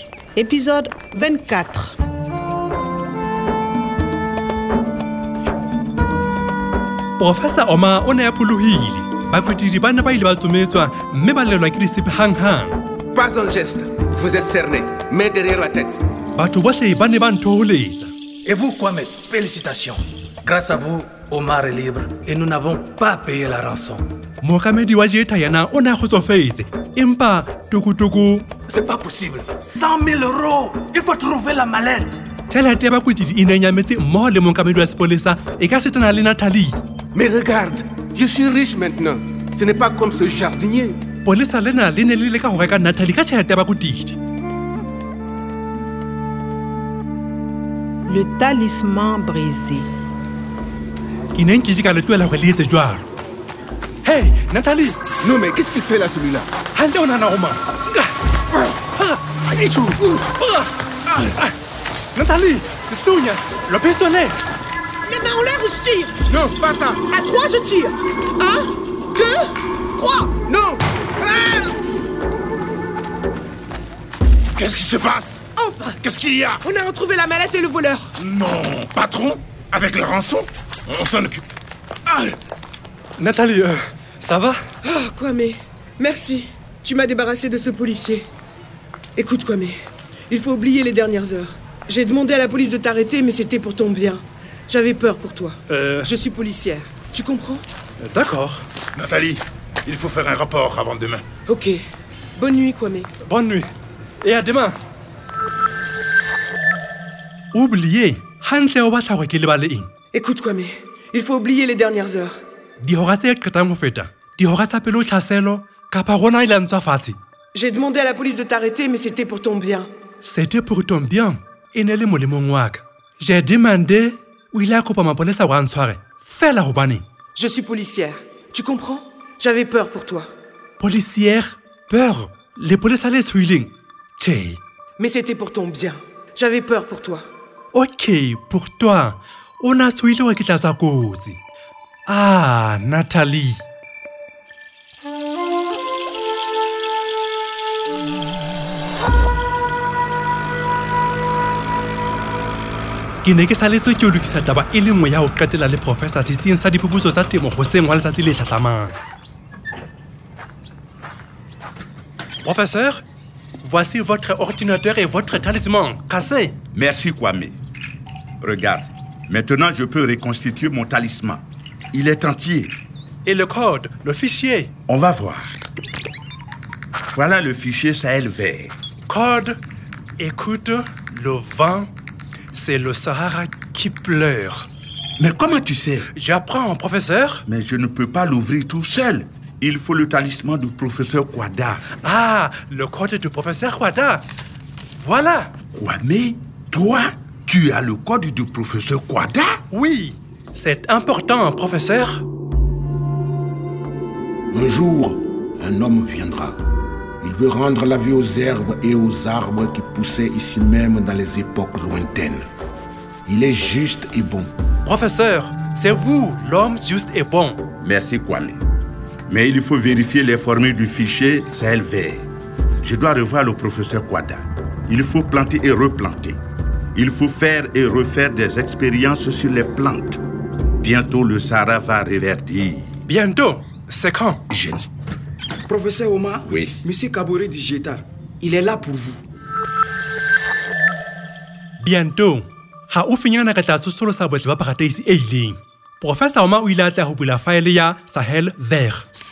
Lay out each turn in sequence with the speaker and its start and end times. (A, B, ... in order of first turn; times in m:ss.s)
0:00.3-0:02.0 A
0:07.2-0:12.8 B
0:13.1-0:16.0 C
0:16.4-0:18.1 B
0:18.4-0:24.1 D
0:24.4-0:28.4 B
0:28.7-0:32.2 D
0:32.5-0:36.8 B
0:37.1-0:41.0 C
0:41.2-0:44.2 B
0:48.1-0:49.9 A
0:51.3-0:53.0 B
0:54.0-0:55.0 B
0:55.2-0:56.5 C
0:56.7-0:58.1 B
0:58.9-0:59.2 B
0:59.6-1:00.0 C
1:00.1-1:00.7 B
1:02.1-1:04.4 B
1:05.0-1:11.7 E
1:06.3-1:06.9 C
1:14.6-1:15.4 F
1:15.6-1:18.1 E
1:18.2-1:19.2 F
1:19.7-1:21.4 F
1:23.2-1:24.6 B
1:24.8-1:28.3 E
1:29.2-1:29.8 E
1:30.3-1:37.6 E
1:35.7-1:36.1 B
1:38.0-1:38.6 B
1:39.9-1:41.2 F
1:41.5-1:41.8 E
1:42.4-1:43.1 E
1:43.2-1:43.7 B
1:44.2-1:44.8 B
1:47.5-1:49.9 B
1:50.1-1:52.3 E
1:52.8-1:57.2 B
1:57.5-1:59.9 E
2:00.2-2:07.0 B
2:07.4-2:10.3 E
2:10.8-2:14.6 B
2:15.0-2:17.2 E
2:17.7-2:21.4 B
2:22.1-2:23.6 B
2:33.2-2:39.0 B
2:42.4-2:43.0 B
2:43.6-2:46.6 B
2:46.7-2:47.6 G
2:48.4-2:52.7 G
2:53.2-2:54.7 B
2:54.9-2:55.6 G
2:57.1-2:58.7 G
2:59.1-2:59.6 B
3:00.2-3:01.9 B
3:02.5-3:04.6 B
3:05.2-3:06.0 G
3:06.1-3:07.4 B
3:07.5-3:11.8 G
3:12.0-3:14.2 B
3:15.0-3:15.5 B
3:15.7-3:19.6 G
3:19.7-3:22.2 B
3:24.5-3:26.6 H
3:27.2-3:32.4 H
3:33.2-3:34.5 H
3:34.8-3:37.6 B
3:37.8-3:38.6 G
3:39.3-3:42.3 G
3:42.8-3:46.4 G
3:46.9-3:50.2 G
3:50.8-3:53.0 G
3:53.1-3:54.4 B
3:54.5-3:54.9 G
3:55.7-3:59.2 I
3:56.4-3:56.8 G
4:01.8-4:09.0 B